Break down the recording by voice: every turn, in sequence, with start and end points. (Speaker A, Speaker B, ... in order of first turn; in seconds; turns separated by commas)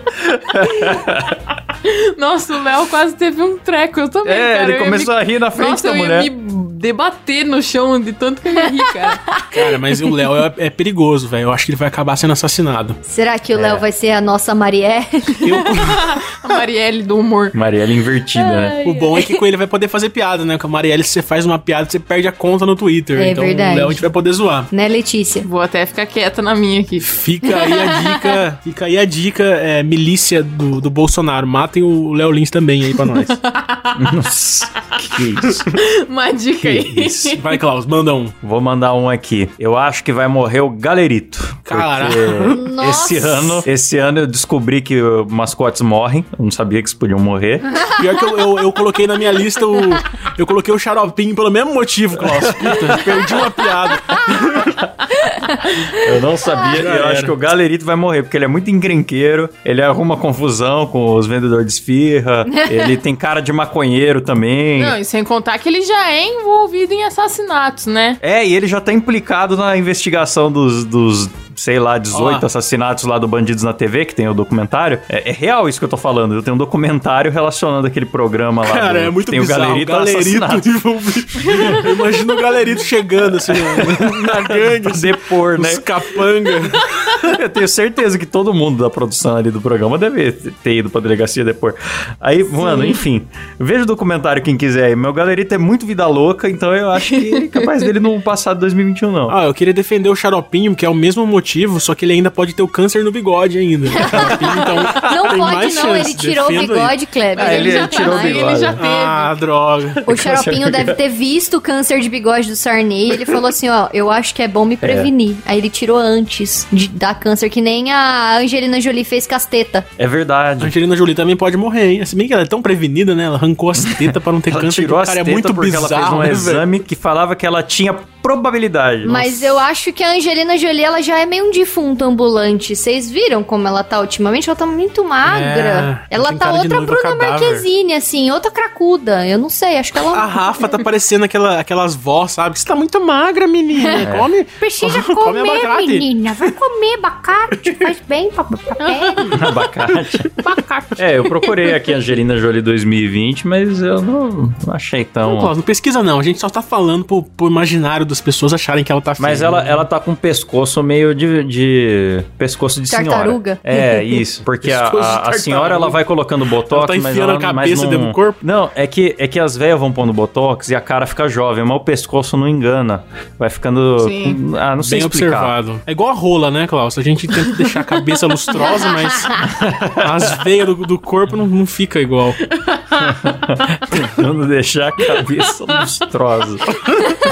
Speaker A: 0.1-1.4, Speaker B: 1.8-9.2, Speaker A: 4.2-6.3, Speaker C: 8.8-9.7, Speaker D: 9.5-13.0, Speaker C: 13.1-15.7, Speaker A: 13.5-13.8, Speaker D: 15.4-16.0, Speaker B: 15.7-17.6, Speaker A: 17.5-18.8, Speaker C: 18.4-19.4, Speaker D: 18.8-24.7, Speaker C: 23.1-24.0, Speaker C: 24.7-25.5, Speaker B: 25.4-27.1, Speaker D: 27.0-33.4, Speaker C: 27.6-28.2, Speaker B: 32.9-34.2, Speaker A: 34.0-35.7, Speaker B: 35.7-37.5, Speaker A: 36.6-37.4, Speaker D: 37.3-38.3, Speaker A: 38.4-47.7, Speaker D: 41.7-42.6, Speaker C: 42.5-43.7, Speaker D: 48.0-54.8, Speaker A: 52.1-53.4, Speaker A: 55.9-65.0, Speaker D: 56.7-57.3, Speaker C: 62.5-62.9, Speaker B: 64.8-68.2, Speaker A: 68.2-80.8, Speaker D: 72.1-72.4, Speaker D: 78.6-87.3, Speaker A: 81.5-81.8, Speaker A: 83.4-85.9, Speaker A: 87.2-99.3, Speaker B: 97.3-97.8, Speaker D: 99.3-106.9, Speaker C: 104.0-108.7, Speaker A: 104.1-105.1, Speaker A: 107.3-108.8, Speaker B: 107.3-109.3, Speaker D: 108.8-110.0, Speaker A: 110.0-111.0, Speaker C: 110.0-119.8, Speaker A: 114.8-115.1, Speaker A: 120.0-120.7, Speaker D: 120.6-126.6, Speaker A: 123.8-129.6, Speaker C: 129.0-140.3, Speaker D: 135.2-137.7, Speaker D: 140.1-146.5, Speaker C: 143.8-144.1, Speaker A: 144.0-144.3, Speaker C: 144.6-149.4, Speaker B: 148.8-149.4, Speaker A: 149.3-150.3, Speaker B: 150.4-150.9, Speaker A: 150.9-155.5, Speaker D: 155.2-159.8, Speaker A: 159.2-175.5, Speaker C: 162.9-164.2, Speaker D: 164.6-166.0, Speaker D: 166.7-168.4, Speaker B: 174.0-174.4, Speaker D: 174.8-182.4, Speaker A: 179.4-180.4, Speaker B: 182.5-183.2, Speaker A: 183.0-187.1